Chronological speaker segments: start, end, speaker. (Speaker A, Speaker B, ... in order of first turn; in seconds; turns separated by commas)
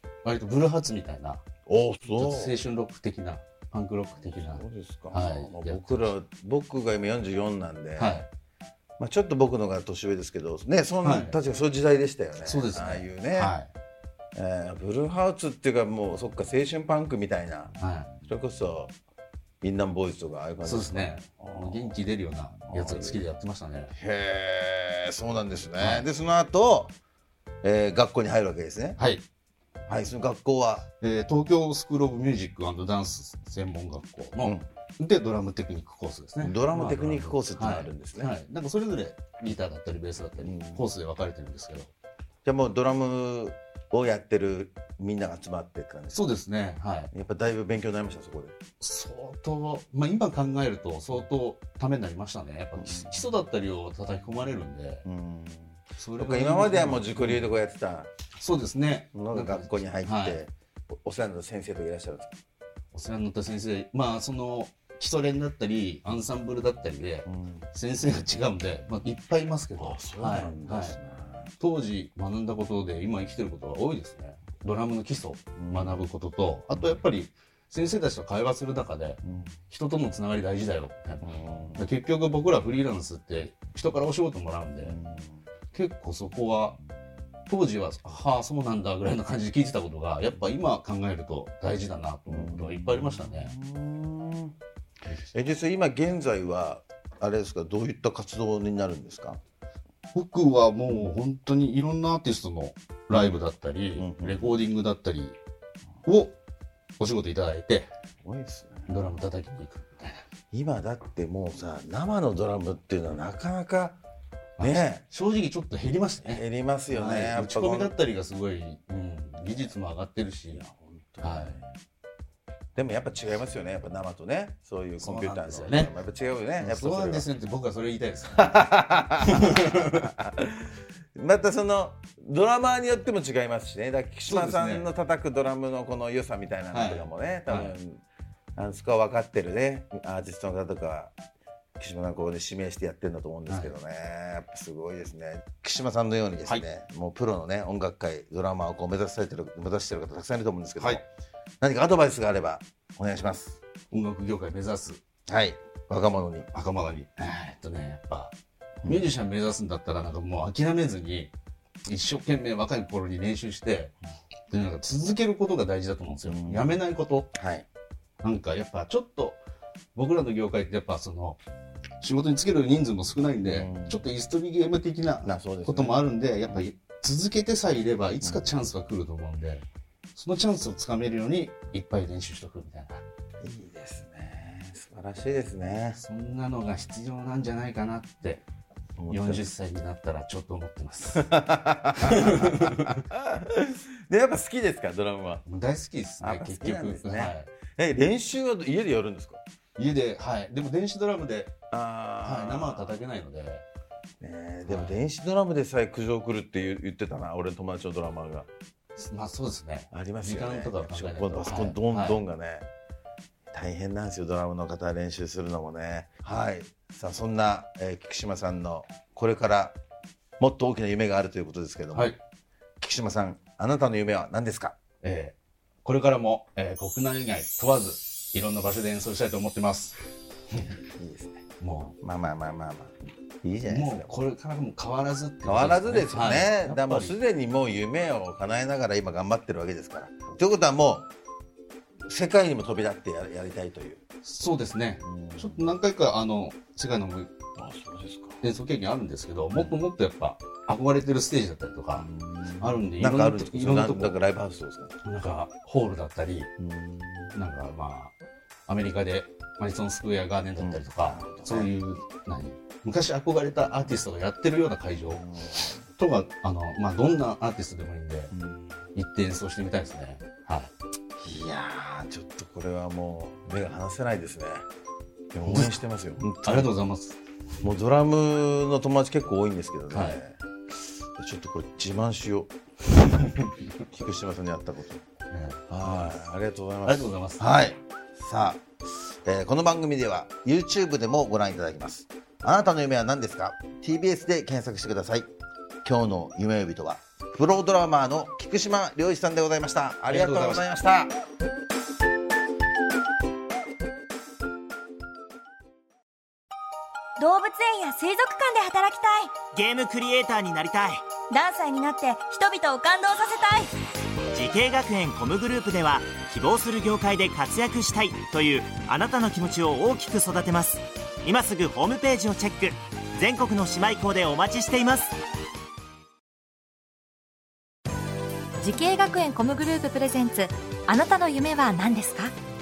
Speaker A: 0.2-1.4, Speaker B: 1.7-2.5, Speaker A: 2.1-6.1, Speaker B: 4.2-8.2, Speaker A: 8.0-8.3, Speaker B: 9.0-13.6, Speaker A: 11.0-11.4, Speaker A: 12.4-13.7, Speaker B: 14.3-18.9, Speaker A: 17.8-18.1, Speaker B: 19.6-22.0, Speaker A: 20.6-23.9, Speaker B: 22.7-23.2, Speaker B: 23.9-26.9, Speaker A: 25.8-26.1, Speaker B: 27.6-29.0, Speaker A: 29.0-29.2, Speaker B: 29.9-30.9, Speaker A: 31.0-41.9, Speaker B: 34.4-34.6, Speaker B: 36.4-38.3, Speaker B: 40.4-40.9, Speaker B: 42.4-46.3, Speaker A: 46.1-47.1, Speaker B: 47.1-48.6, Speaker A: 48.8-55.0, Speaker B: 52.8-53.1, Speaker B: 55.0-58.1, Speaker A: 56.0-57.5, Speaker A: 58.4-60.4, Speaker B: 59.1-60.5, Speaker B: 61.0-62.4, Speaker A: 62.9-71.0, Speaker B: 67.2-67.7, Speaker B: 69.7-71.5, Speaker A: 71.6-81.2, Speaker B: 75.5-76.1, Speaker B: 79.2-79.5, Speaker B: 81.2-81.9, Speaker A: 81.8-85.0, Speaker B: 84.8-85.4, Speaker A: 85.7-86.8, Speaker A: 87.5-93.5, Speaker B: 92.3-94.5, Speaker B: 95.3-99.4, Speaker A: 100.1-105.4, Speaker B: 104.0-104.6, Speaker A: 106.0-106.3, Speaker A: 107.0-107.9, Speaker B: 108.2-108.9, Speaker A: 108.9-110.2, Speaker B: 110.5-114.0, Speaker B: 114.6-115.0, Speaker A: 114.6-120.7, Speaker B: 116.2-117.9, Speaker B: 120.6-121.7, Speaker A: 121.2-121.6, Speaker B: 122.8-127.3, Speaker A: 125.0-125.9, Speaker A: 126.6-128.6, Speaker B: 128.3-138.0, Speaker A: 129.2-130.1, Speaker A: 134.3-134.9, Speaker A: 136.7-137.7, Speaker B: 138.6-141.1, Speaker B: 141.8-151.0, Speaker B: 151.6-153.6, Speaker A: 153.9-155.0, Speaker B: 155.3-156.5, Speaker A: 156.5-158.3, Speaker B: 158.8-159.1, Speaker A: 158.8-161.3, Speaker A: 161.8-163.9, Speaker A: 164.5-167.3, Speaker B: 166.2-166.8, Speaker B: 167.3-167.7, Speaker A: 168.2-169.4, Speaker A: 169.9-171.4, Speaker A: 172.0-183.0, Speaker B: 173.4-174.0, Speaker B: 175.2-176.0, Speaker B: 178.2-178.5, Speaker B: 183.4-186.0, Speaker A: 185.9-188.4, Speaker B: 189.0-189.4, Speaker A: 189.1-191.3, Speaker B: 191.1-195.4, Speaker A: 192.0-193.0, Speaker A: 195.4-197.5, Speaker B: 196.2-199.4, Speaker A: 199.8-201.5, Speaker B: 201.7-203.0, Speaker A: 202.2-203.6, Speaker B: 204.2-208.5, Speaker A: 204.6-205.0, Speaker A: 208.9-212.2, Speaker B: 209.9-212.7, Speaker B: 213.5-219.8, Speaker B: 220.4-222.1, Speaker A: 221.9-222.2, Speaker B: 222.8-224.8, Speaker A: 225.0-230.0, Speaker B: 230.8-231.4, Speaker A: 231.6-231.9, Speaker B: 232.0-234.3, Speaker A: 233.6-237.2, Speaker B: 235.4-241.1, Speaker B: 242.1-244.0, Speaker A: 244.2-247.3, Speaker B: 245.0-245.8, Speaker B: 247.6-248.4, Speaker A: 248.4-252.1, Speaker B: 251.9-254.9, Speaker A: 252.6-254.2, Speaker A: 255.0-256.5, Speaker B: 256.6-257.4, Speaker A: 257.3-258.1, Speaker A: 258.7-265.2, Speaker B: 260.6-261.7, Speaker B: 265.0-265.9, Speaker A: 265.9-268.3, Speaker B: 268.3-268.8, Speaker A: 268.9-270.7, Speaker B: 271.2-274.6, Speaker B: 275.3-276.7, Speaker A: 275.4-275.8, Speaker A: 276.4-277.2, Speaker B: 277.6-280.4, Speaker A: 279.9-280.2, Speaker B: 281.1-282.5, Speaker B: 283.8-285.0, Speaker A: 285.3-286.1, Speaker B: 285.7-295.3, Speaker A: 286.8-287.4, Speaker B: 295.8-301.1, Speaker A: 300.0-300.6, Speaker C: 307.2-309.4, Speaker D: 309.5-311.0, Speaker C: 311.3-313.7, Speaker D: 314.3-325.1, Speaker E: 328.6-332.3